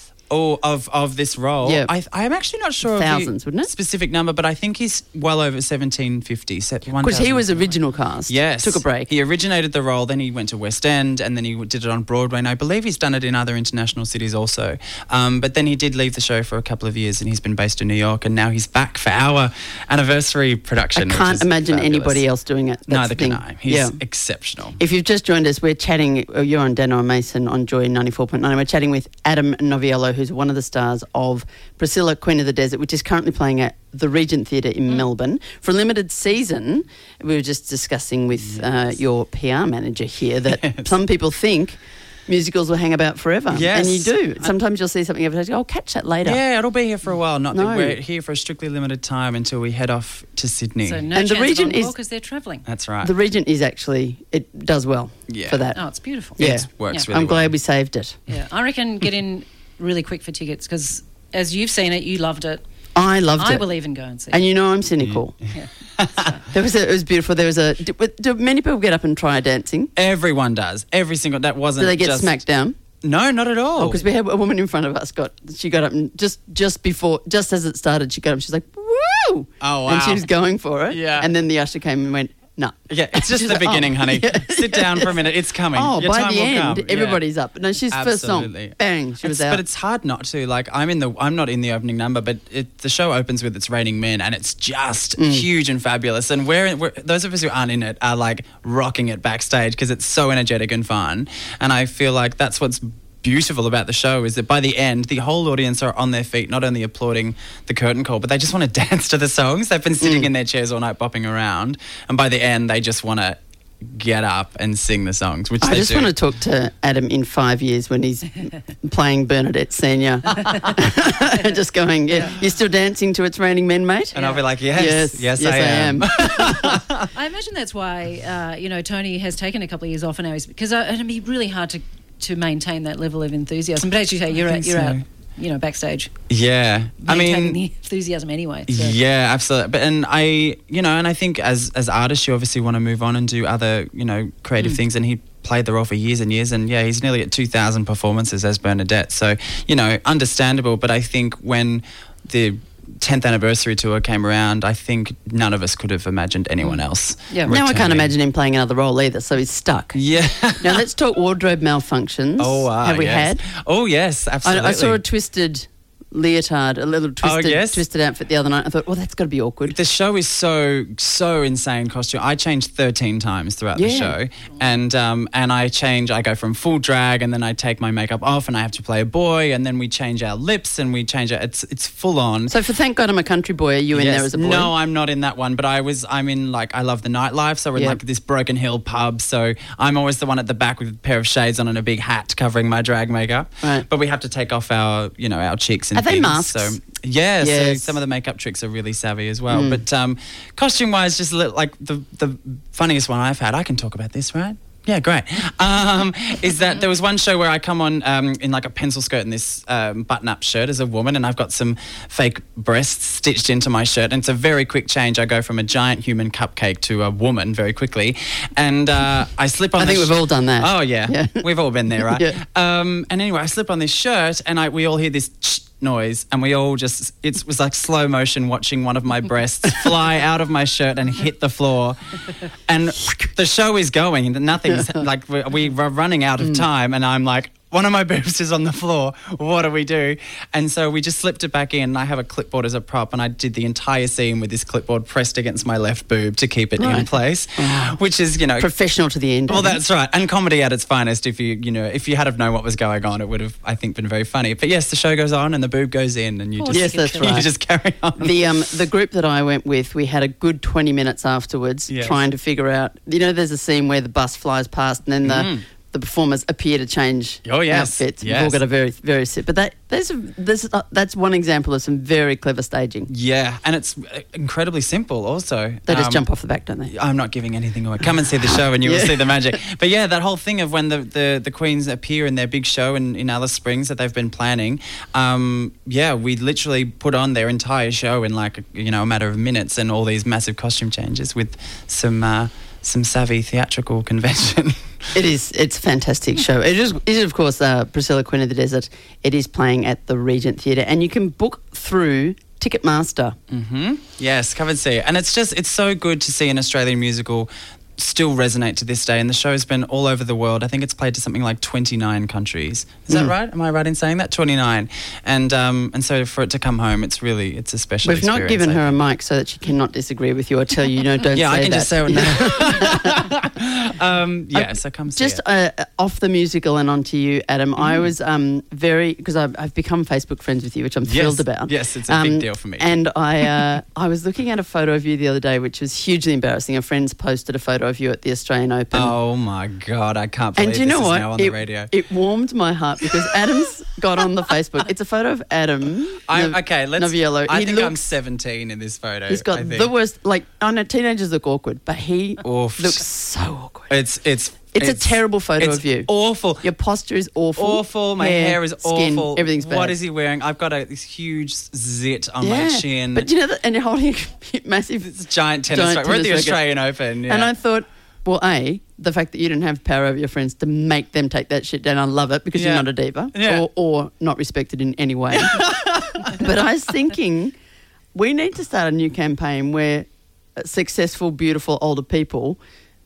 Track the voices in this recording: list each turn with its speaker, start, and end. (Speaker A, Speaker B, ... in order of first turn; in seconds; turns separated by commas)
Speaker A: 0.3-7.7, Speaker B: 1.6-1.9, Speaker B: 2.8-3.7, Speaker B: 7.0-9.1, Speaker A: 8.3-22.2, Speaker B: 20.9-24.0, Speaker A: 22.9-24.8, Speaker B: 24.8-46.4, Speaker A: 40.5-40.9, Speaker A: 43.5-44.1, Speaker A: 46.2-51.1, Speaker B: 47.5-48.0, Speaker C: 50.9-52.6, Speaker B: 51.1-51.9, Speaker A: 52.6-53.1, Speaker B: 53.0-55.8, Speaker A: 55.3-55.7, Speaker C: 55.8-57.1, Speaker A: 56.4-57.5, Speaker B: 56.4-58.2, Speaker C: 58.3-62.6, Speaker B: 63.0-63.7, Speaker C: 63.4-64.5, Speaker B: 64.3-65.3, Speaker C: 65.5-66.5, Speaker A: 66.0-66.3, Speaker B: 66.4-69.9, Speaker A: 70.0-72.4, Speaker B: 71.8-72.8, Speaker A: 73.0-74.1, Speaker B: 73.8-85.2, Speaker A: 79.6-80.3, Speaker A: 80.9-81.3, Speaker A: 82.9-87.2, Speaker B: 85.7-89.6, Speaker A: 87.9-116.1, Speaker B: 95.2-95.5, Speaker B: 110.0-110.3, Speaker B: 115.6-124.2, Speaker A: 124.1-127.1, Speaker C: 124.2-124.4, Speaker B: 124.7-126.7, Speaker C: 127.1-136.1, Speaker A: 134.3-135.0, Speaker A: 136.3-137.6, Speaker C: 137.0-138.9, Speaker A: 138.7-158.1, Speaker C: 156.6-157.5, Speaker B: 157.5-160.0, Speaker A: 159.9-160.8, Speaker B: 160.6-163.4, Speaker A: 162.4-165.0, Speaker B: 164.4-169.8, Speaker A: 167.2-167.8, Speaker A: 169.7-182.5, Speaker B: 173.7-174.2, Speaker B: 182.5-184.7, Speaker A: 183.9-232.2, Speaker B: 187.8-188.0, Speaker B: 195.9-196.8, Speaker B: 197.4-198.0, Speaker B: 199.5-199.8, Speaker B: 219.8-222.4, Speaker A: 232.7-248.7, Speaker B: 246.8-248.0, Speaker B: 248.6-249.8, Speaker A: 249.5-258.5, Speaker C: 256.6-257.4, Speaker B: 256.7-257.5, Speaker B: 258.2-273.1, Speaker A: 261.9-262.2, Speaker A: 265.2-265.6, Speaker A: 267.4-268.6, Speaker A: 273.1-276.2, Speaker B: 275.9-276.9, Speaker A: 276.9-295.2, Speaker B: 278.8-279.4, Speaker B: 295.1-303.4, Speaker A: 303.5-318.9, Speaker B: 318.0-323.2, Speaker A: 321.3-325.4, Speaker B: 324.5-339.2, Speaker A: 327.8-328.1, Speaker A: 331.0-333.6, Speaker A: 338.9-341.9, Speaker B: 340.6-348.0, Speaker A: 346.3-349.9, Speaker B: 349.3-354.0, Speaker A: 352.4-353.0, Speaker A: 353.9-356.7, Speaker B: 354.7-356.1, Speaker B: 356.6-360.0, Speaker A: 357.6-363.3, Speaker B: 362.4-366.7, Speaker A: 365.0-367.5, Speaker B: 367.2-377.5, Speaker A: 372.5-373.7, Speaker A: 375.3-376.5, Speaker B: 378.1-382.6